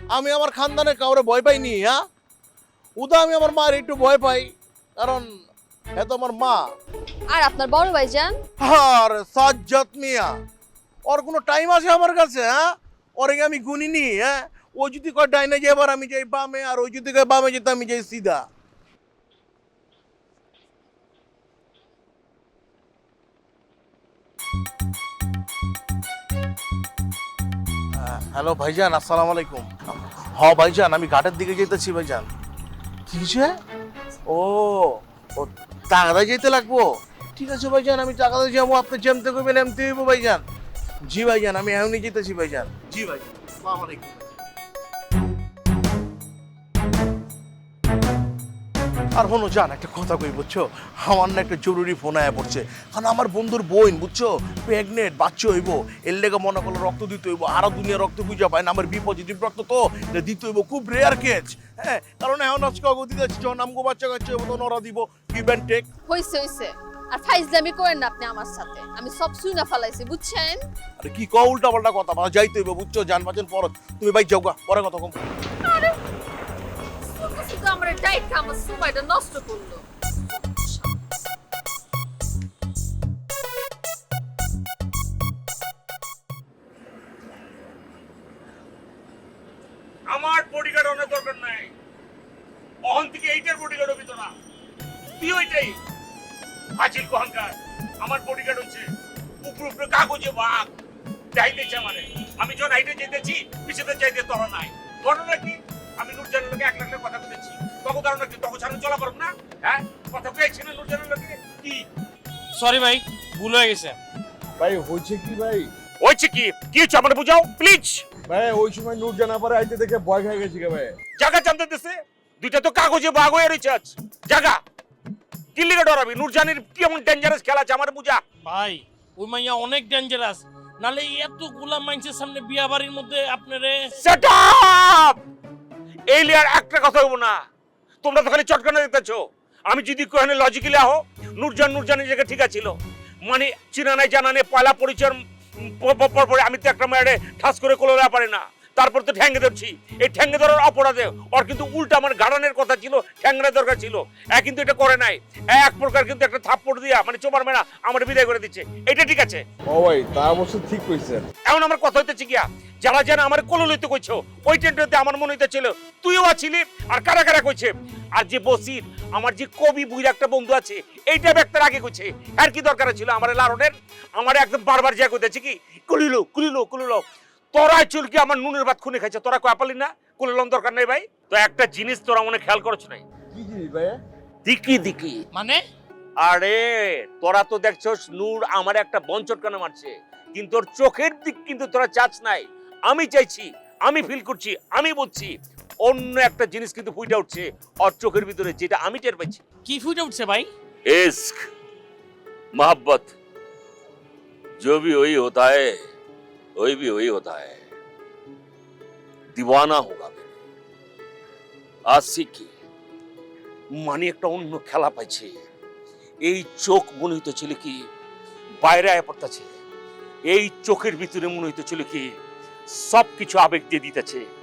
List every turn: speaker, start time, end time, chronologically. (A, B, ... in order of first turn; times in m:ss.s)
0:00.1-0:02.0 A
0:03.0-0:05.3 A
0:05.9-0:06.6 A
0:07.3-0:08.4 B
0:08.6-0:10.3 A
0:11.0-0:18.4 A
0:28.0-0:32.3 A
0:33.1-0:33.6 A
0:34.3-0:40.4 A
0:41.1-0:44.2 A
0:49.1-1:05.8 A
1:06.1-1:10.6 B
1:11.0-1:15.1 A
1:15.6-1:16.0 B
1:17.1-1:21.0 B
1:30.1-1:31.7 C
1:32.9-1:34.3 C
1:35.2-1:35.7 C
1:36.8-1:38.9 C
1:39.4-1:40.7 C
1:41.3-1:51.9 C
1:52.5-1:54.0 D
1:54.6-1:55.7 E
1:56.0-1:58.0 C
1:58.3-2:00.9 E
2:01.2-2:04.6 C
2:05.5-2:08.2 C
2:08.4-2:14.0 D
2:14.0-2:15.2 C
2:16.1-2:17.4 C
2:18.0-2:39.4 C
2:39.6-2:41.3 E
2:41.5-3:03.0 C
3:03.3-3:04.0 E
3:04.4-3:05.2 C
3:05.3-3:05.6 D
3:06.2-3:15.3 C
3:15.8-3:19.4 C
3:19.6-3:20.5 D
3:20.8-3:21.4 C
3:22.5-3:23.1 C
3:24.6-3:25.8 C
3:26.6-3:27.6 C
3:29.3-3:30.2 C
3:31.9-3:32.5 C
3:33.8-3:35.4 C
3:36.2-3:37.8 C
3:38.6-3:39.5 C
3:40.3-3:42.1 C
3:42.7-3:44.3 C